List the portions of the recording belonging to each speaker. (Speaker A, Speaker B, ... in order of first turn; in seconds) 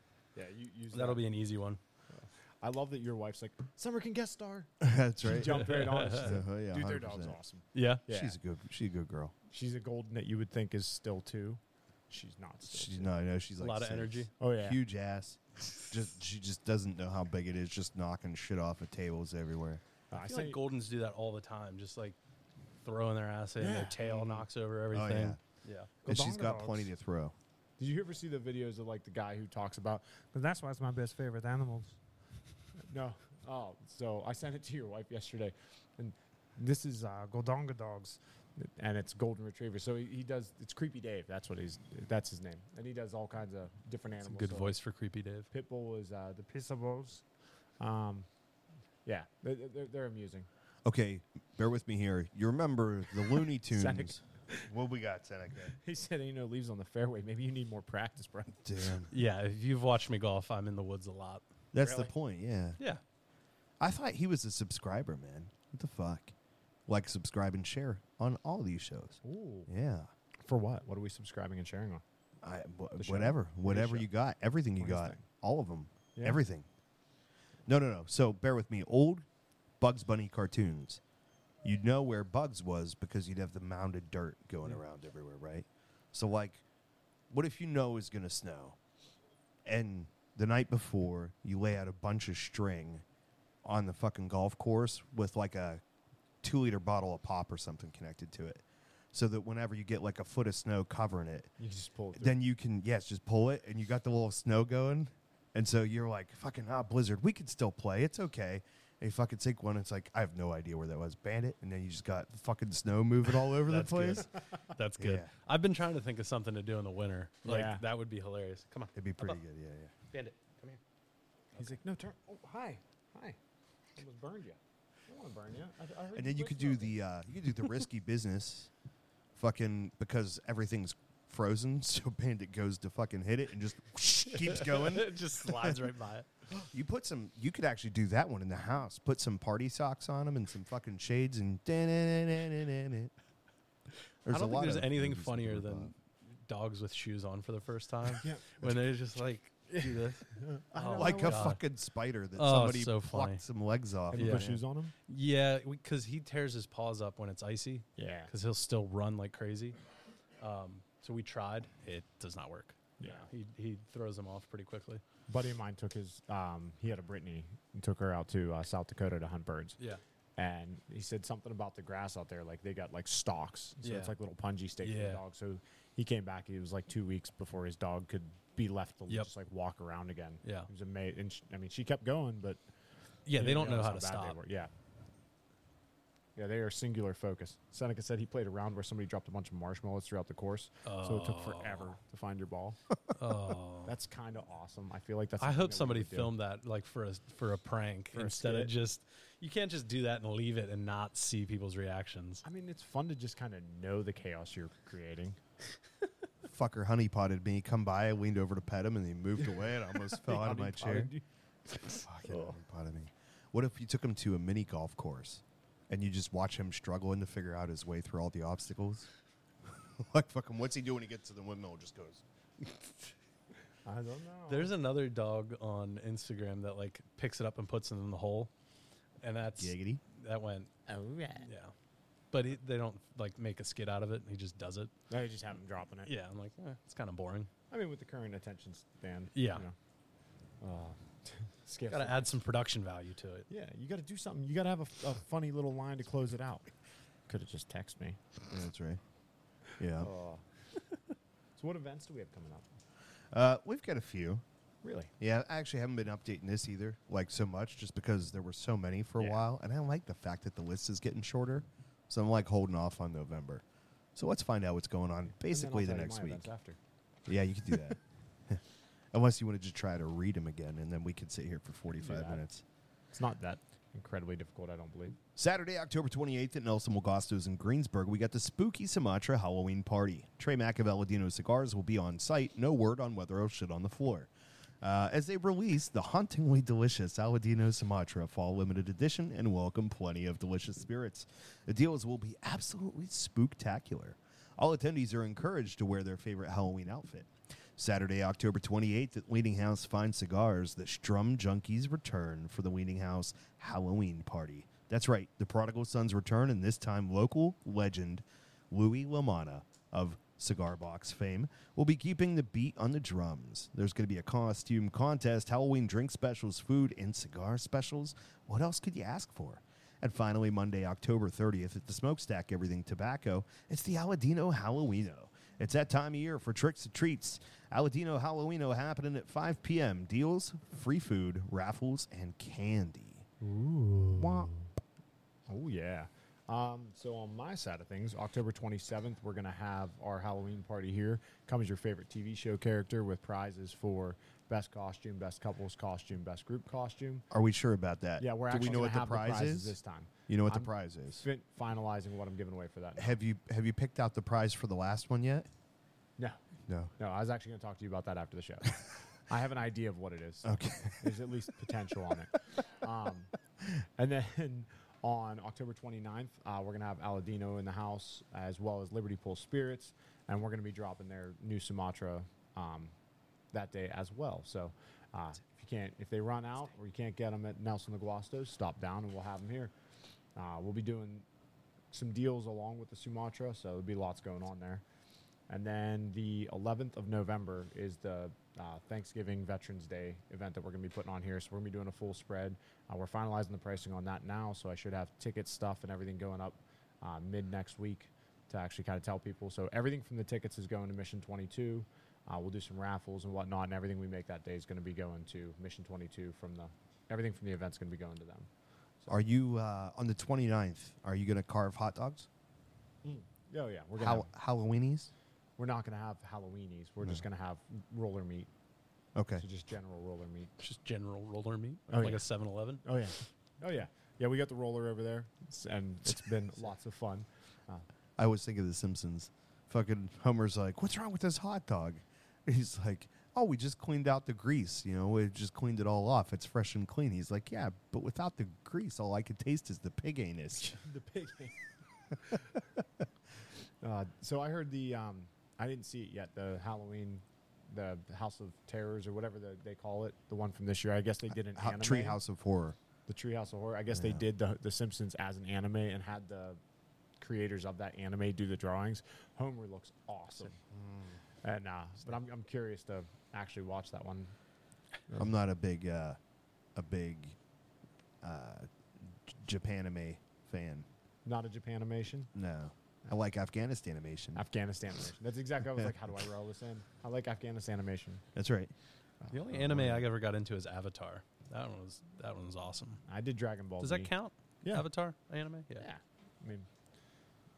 Speaker A: 0.3-1.2, 2.1-8.3, 9.5-13.1, 14.4-14.8, 20.1-20.6, 23.6-24.4, 26.0-26.9, 27.8-31.9, 32.8-44.7, 45.5-47.2, 47.8-48.3, 49.0-50.5, 53.6-54.7, 55.7-58.6, 61.8-62.1, 69.2-69.7, 70.4-72.0, 73.0-74.1, 74.8-75.2, 76.2-76.4, 101.6-102.4, 117.4-117.8, 121.6-123.4, 123.9-127.0, 148.2-148.5, 149.7-151.5, 154.1-154.9, 158.0-158.3, 163.0-163.3, 165.3-169.8, 170.4-182.6, 183.3-184.7, 186.3-192.8, 193.8-196.3, 198.1-198.7, 202.4-205.4, 209.4-212.6, 223.8-224.7, 230.9-231.5, 235.1-236.1, 237.7-239.7, 240.6-242.3, 243.5-246.7, 247.3-248.2, 250.0-250.4, 251.6-252.7, 254.8-255.1, 259.2-259.4, 265.4-266.8, 272.0-272.4, 273.1-275.2, 333.4-334.7, 335.5-347.2, 348.2-353.1, 357.0-363.3, 363.9-372.9, 373.5-379.7, 380.4-381.2, 381.9-384.8, 385.5-408.5, 413.0-414.3, 415.6-418.5, 419.4-420.5, 421.9-422.2, 422.8-427.8, 440.6-441.6, 443.8-452.2, 453.1-456.6, 457.2-460.6, 461.4-464.3, 471.2-472.3, 474.3-478.2, 479.2-480.0, 483.1-484.1, 485.8-486.7
Speaker B: 0.9-1.8, 5.5-6.3, 7.7-8.0, 13.6-14.3, 20.1-22.1, 22.8-25.9, 44.2-45.5, 59.1-61.4, 113.6-119.4, 120.1-120.8, 134.3-136.3, 144.3-151.6, 152.3-153.4, 154.1-154.5, 155.1-159.8, 160.4-165.0, 173.8-174.1, 174.8-175.2, 183.2-184.4, 190.8-191.9, 193.1-193.9, 195.4-202.4, 224.5-228.5, 229.2-230.7, 231.4-231.7, 232.3-234.9, 236.0-237.5, 239.3-239.6, 241.9-243.5, 420.6-422.8, 479.3-483.0, 483.8-485.8
Speaker C: 4.8-7.4, 8.1-9.3, 12.7-19.8, 24.9-25.4, 26.0-27.3, 50.8-55.7, 58.6-59.1, 61.7-62.8, 63.8-66.3, 66.9-70.1, 72.4-76.7, 77.7-79.2, 79.8-81.0, 81.6-86.6, 87.3-88.8, 89.6-93.0, 93.6-95.8, 96.4-101.5, 102.2-114.3, 115.0-115.3, 118.9-119.9, 126.1-128.7, 129.3-135.8, 136.6-143.1, 144.2-145.9, 150.9-154.6, 206.4-211.1, 212.0-219.1, 219.7-222.2, 229.6-230.0, 248.5-249.0, 249.8-250.1, 253.3-254.4, 255.2-263.6, 264.1-266.5, 267.2-268.6, 269.1-272.6, 275.4-284.3, 284.8-333.2, 334.1-334.5, 347.3-349.8, 350.3-351.2, 353.0-355.5, 356.7-356.9, 360.4-361.3, 409.1-412.3, 414.0-415.1, 419.1-419.4, 428.2-440.8, 451.5-452.8, 453.9-454.2, 460.6-461.2, 465.2-466.2, 466.7-467.4, 468.2-470.9, 472.3-474.4, 478.3-478.7